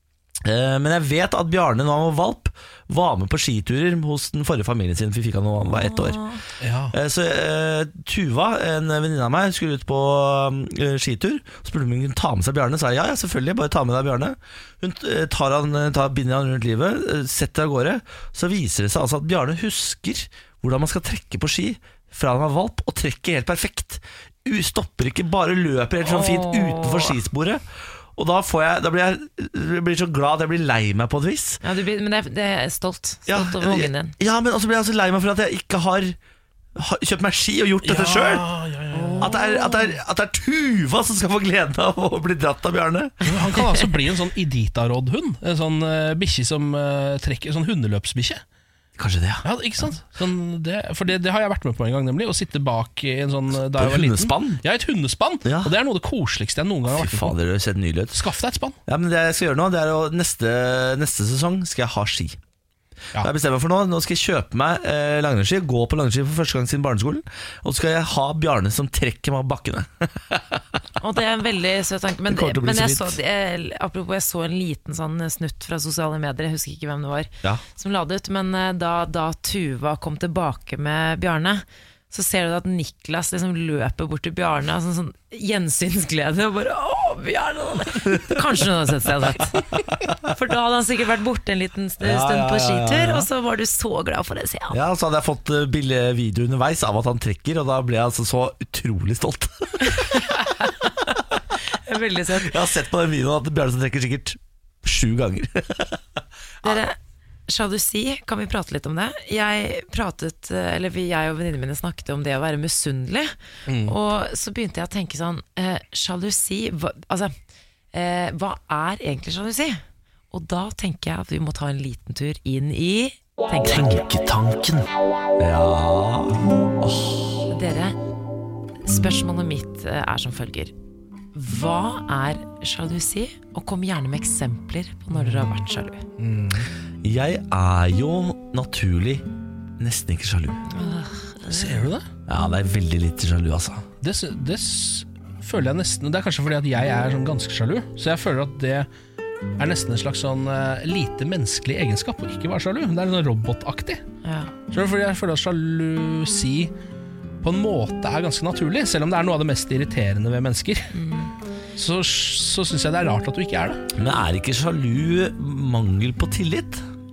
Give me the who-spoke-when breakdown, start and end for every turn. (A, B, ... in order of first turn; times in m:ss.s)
0:00.4-0:06.2 A
0:05.7-0:06.4 B
0:06.6-0:07.0 C
0:06.9-0:27.6 A
0:26.0-0:27.2 B
0:28.2-0:31.6 A
0:31.6-0:34.2 B
0:33.3-0:36.2 A
0:36.8-0:38.5 A
0:37.8-0:39.3 C
0:38.9-0:40.0 B
0:39.2-0:43.2 A
0:43.2-0:48.4 C
0:49.0-0:49.5 A
0:49.4-0:57.4 C
0:53.8-0:54.6 A
0:55.4-0:55.8 A
0:56.9-0:58.2 A
0:58.1-0:58.8 C
0:58.9-1:02.4 A
1:03.2-1:10.6 A
1:11.0-1:34.8 B
1:12.3-1:13.2 A
1:32.0-1:33.3 A
1:34.7-1:40.2 A
1:39.8-1:42.5 B
1:42.3-1:46.0 A
1:46.6-1:47.0 B
1:47.5-1:57.3 B
1:53.7-1:54.0 C
1:57.9-2:04.0 B
2:03.7-2:07.5 A
2:07.5-2:08.0 B
2:08.8-2:10.7 B
2:11.3-2:16.0 B
2:15.2-2:15.5 C
2:16.2-2:16.7 C
2:17.0-2:19.3 A
2:19.8-2:20.6 A
2:20.7-2:21.9 B
2:21.5-2:22.1 C
2:22.3-2:23.9 A
2:24.0-2:28.9 C
2:29.6-2:34.0 C
2:34.2-2:34.5 B
2:34.7-2:36.7 C
2:37.4-2:40.9 C
2:40.9-2:41.3 B
2:41.8-2:43.8 C
2:43.9-2:46.8 A